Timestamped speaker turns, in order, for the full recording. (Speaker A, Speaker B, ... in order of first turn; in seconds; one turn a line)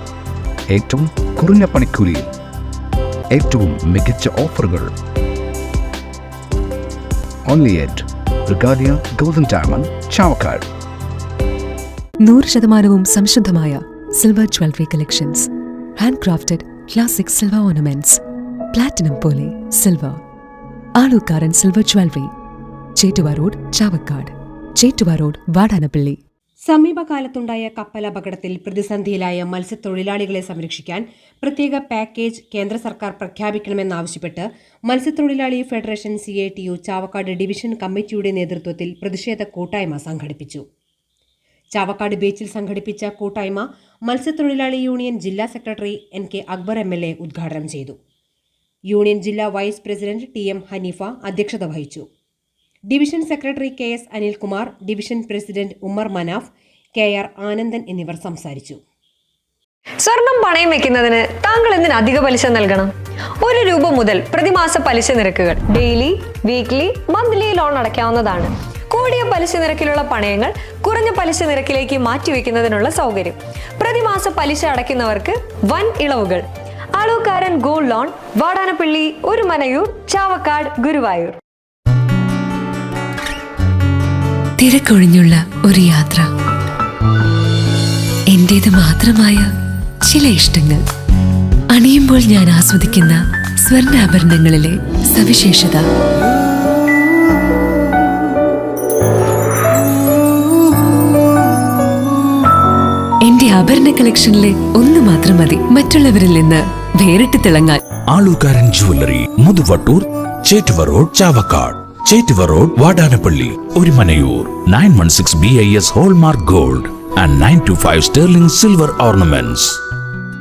Speaker A: 0.7-2.3
Speaker A: 3.3-4.9
Speaker A: 7.5-10.7
Speaker B: 12.2-18.2
Speaker B: 18.7-20.2
Speaker B: 21.0-22.3
Speaker B: 23.0-26.2
Speaker C: 26.6-40.6
Speaker C: 41.7-48.0
Speaker C: 48.9-52.0
Speaker C: 52.9-58.8
Speaker D: 60.0-76.4
Speaker D: 77.0-81.4
Speaker B: 84.6-86.3
Speaker B: 88.3-89.5
Speaker B: 90.0-90.8
Speaker B: 91.7-95.9
Speaker B: 103.2-107.8
Speaker E: 108.1-119.8